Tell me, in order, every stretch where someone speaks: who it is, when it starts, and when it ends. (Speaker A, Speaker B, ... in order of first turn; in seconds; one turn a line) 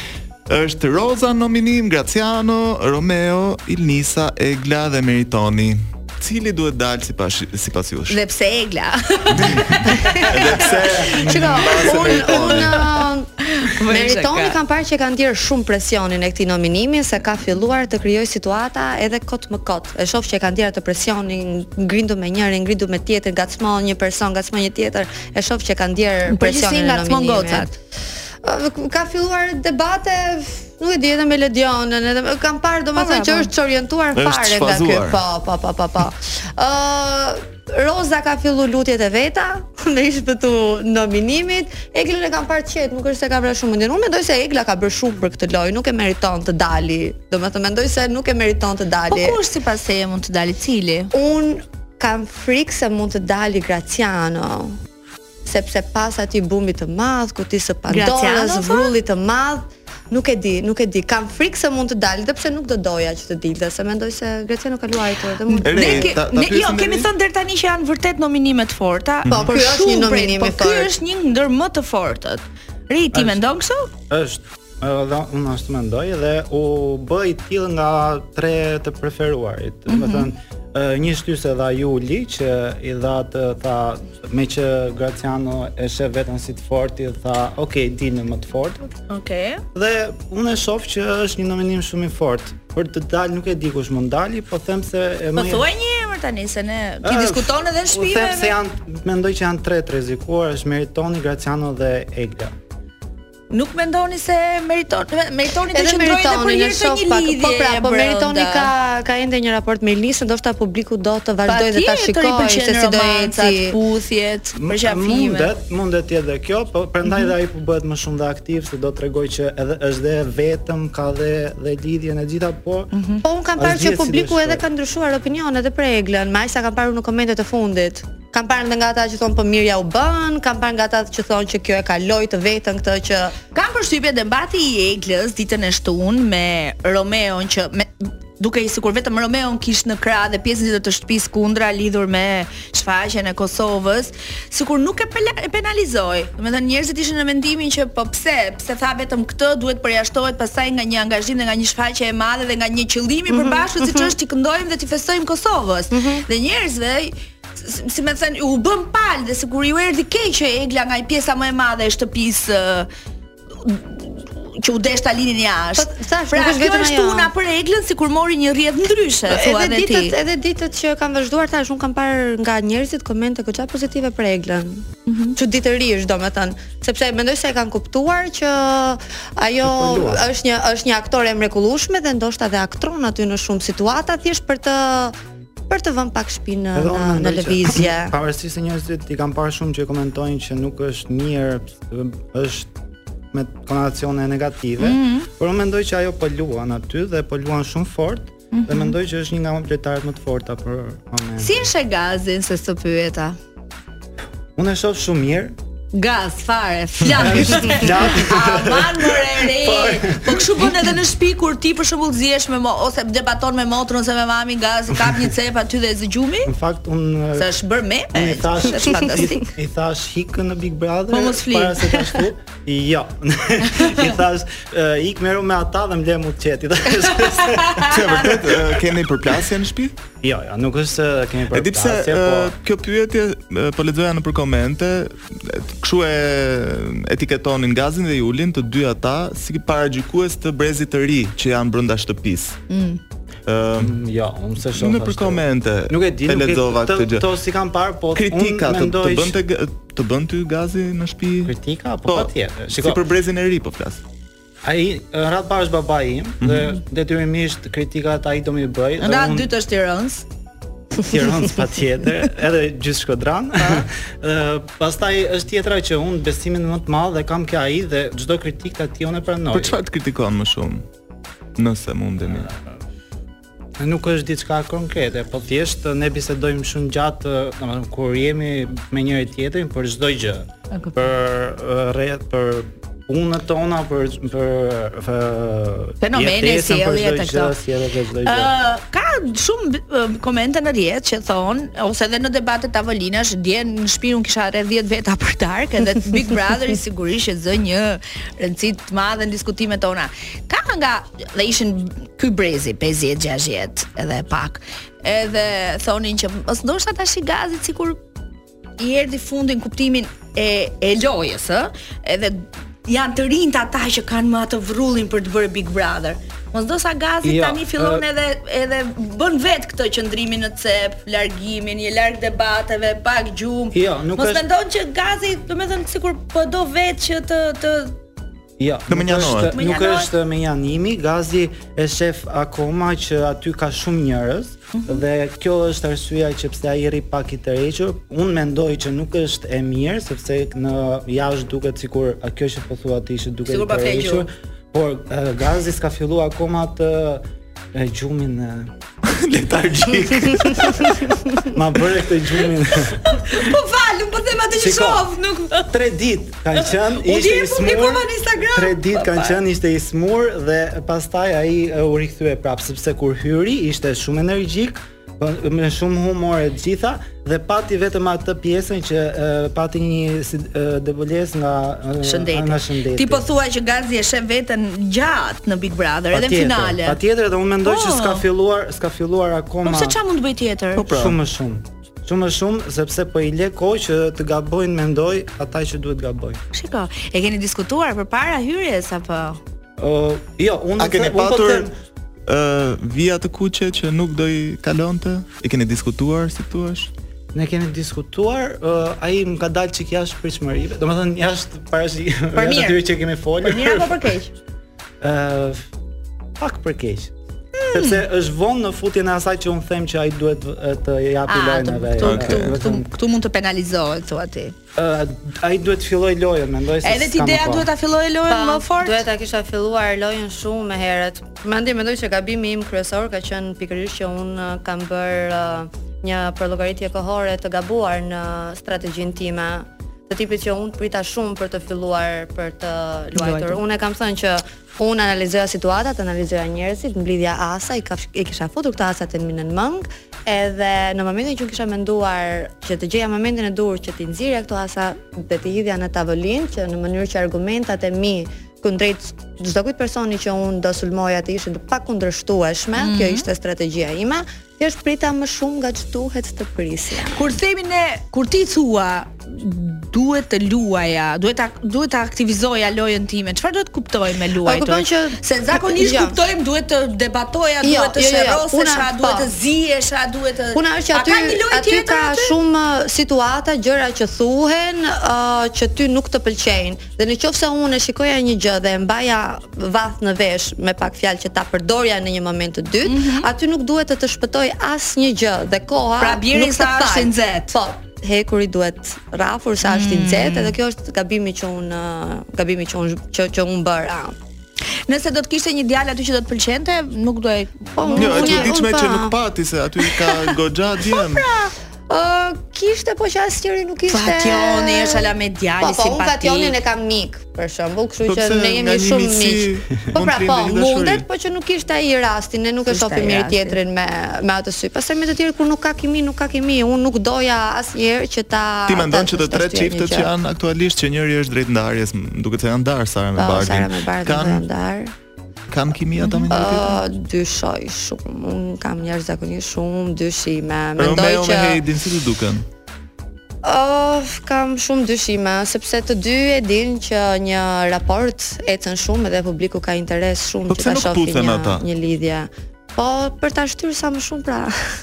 Speaker A: 0.5-8.2
Speaker B: 8.1-10.2
Speaker A: 9.4-9.7
Speaker C: 10.2-13.3
Speaker A: 10.3-12.8
Speaker B: 11.9-12.6
Speaker B: 13.4-14.6
Speaker C: 13.8-27.7
Speaker B: 26.3-27.7
Speaker C: 28.4-49.4
Speaker B: 33.0-33.5
Speaker A: 34.1-35.2
Speaker B: 49.1-51.1
Speaker C: 51.1-54.8
Speaker C: 55.4-66.1
Speaker B: 57.9-58.9
Speaker B: 65.5-73.9
Speaker A: 65.6-67.1
Speaker A: 69.2-69.5
Speaker C: 69.3-70.9
Speaker D: 73.1-73.4
Speaker D: 74.1-88.9
Speaker B: 79.9-80.3
Speaker B: 89.1-89.6
Speaker D: 89.7-95.7
Speaker B: 95.3-98.5
Speaker D: 97.0-102.5
Speaker B: 103.5-108.7
Speaker C: 105.7-113.8
Speaker B: 111.4-115.5
Speaker D: 114.5-122.9
Speaker B: 117.0-117.3
Speaker B: 122.9-123.2
Speaker C: 123.2-133.3
Speaker D: 123.6-124.6
Speaker B: 133.5-162.9
Speaker C: 153.3-154.1
Speaker C: 155.9-156.2
Speaker B: 163.6-170.1
Speaker C: 165.8-167.3
Speaker C: 169.3-185.1
Speaker B: 175.1-175.4
Speaker D: 179.6-180.2
Speaker C: 185.7-188.1
Speaker D: 186.7-192.7
Speaker D: 193.3-201.7
Speaker B: 194.8-195.3
Speaker B: 198.5-198.9
Speaker B: 201.4-203.4
Speaker D: 204.6-205.5
Speaker B: 205.9-216.5
Speaker D: 207.0-210.9
Speaker D: 216.4-217.5
Speaker B: 217.3-219.4
Speaker D: 218.1-228.8
Speaker B: 221.1-222.2
Speaker B: 223.8-224.0
Speaker B: 227.2-227.9
Speaker A: 227.8-229.9
Speaker D: 230.2-232.5
Speaker A: 231.5-242.6
Speaker B: 242.7-243.0
Speaker A: 243.5-243.9
Speaker D: 243.8-249.3
Speaker A: 244.7-247.2
Speaker A: 248.1-251.5
Speaker D: 251.4-253.0
Speaker A: 252.1-254.0
Speaker D: 254.6-259.5
Speaker A: 256.4-256.7
Speaker B: 259.0-260.2
Speaker D: 261.0-269.8
Speaker A: 269.5-270.9
Speaker A: 271.6-272.5
Speaker D: 272.3-272.6
Speaker D: 273.8-288.5
Speaker B: 286.0-287.6
Speaker B: 288.2-308.0
Speaker B: 308.8-327.9
Speaker D: 317.2-318.1
Speaker D: 323.7-324.4
Speaker D: 328.6-348.7
Speaker A: 328.9-329.5
Speaker B: 329.5-330.1
Speaker B: 334.7-335.0
Speaker B: 343.5-344.3
Speaker A: 349.1-350.5
Speaker D: 349.3-353.0
Speaker B: 353.0-355.7
Speaker D: 354.5-355.1
Speaker D: 355.7-373.3
Speaker B: 356.5-359.4
Speaker B: 372.0-377.0
Speaker D: 376.1-380.0
Speaker B: 377.6-378.2
Speaker B: 379.6-380.9
Speaker A: 380.8-381.2
Speaker D: 380.9-386.4
Speaker B: 386.5-389.4
Speaker D: 389.8-391.7
Speaker A: 390.8-391.7
Speaker A: 392.3-396.9
Speaker D: 397.3-404.1
Speaker B: 402.3-402.8
Speaker B: 403.4-404.3
Speaker D: 405.0-405.6
Speaker D: 406.4-407.1
Speaker B: 407.6-408.0
Speaker D: 407.7-412.9
Speaker B: 411.3-414.5
Speaker A: 412.0-412.5
Speaker D: 414.8-417.7
Speaker B: 416.8-419.0
Speaker C: 418.3-457.3
Speaker B: 433.1-433.6
Speaker B: 452.8-453.3
Speaker B: 457.1-472.3
Speaker C: 464.4-466.2
Speaker C: 467.6-469.3
Speaker C: 470.5-494.1
Speaker B: 482.8-483.3
Speaker B: 486.0-487.5
Speaker B: 489.6-490.6
Speaker B: 494.9-498.5
Speaker C: 497.8-499.1
Speaker A: 497.9-501.3
Speaker B: 500.9-501.5
Speaker C: 501.9-505.1
Speaker B: 503.9-506.6
Speaker C: 505.6-520.1
Speaker A: 508.1-511.1
Speaker B: 512.7-513.6
Speaker A: 518.7-524.5
Speaker C: 523.1-524.9
Speaker A: 525.5-526.8
Speaker B: 526.0-526.3
Speaker C: 526.3-531.6
Speaker A: 530.8-532.5
Speaker C: 533.4-544.5
Speaker A: 540.5-541.6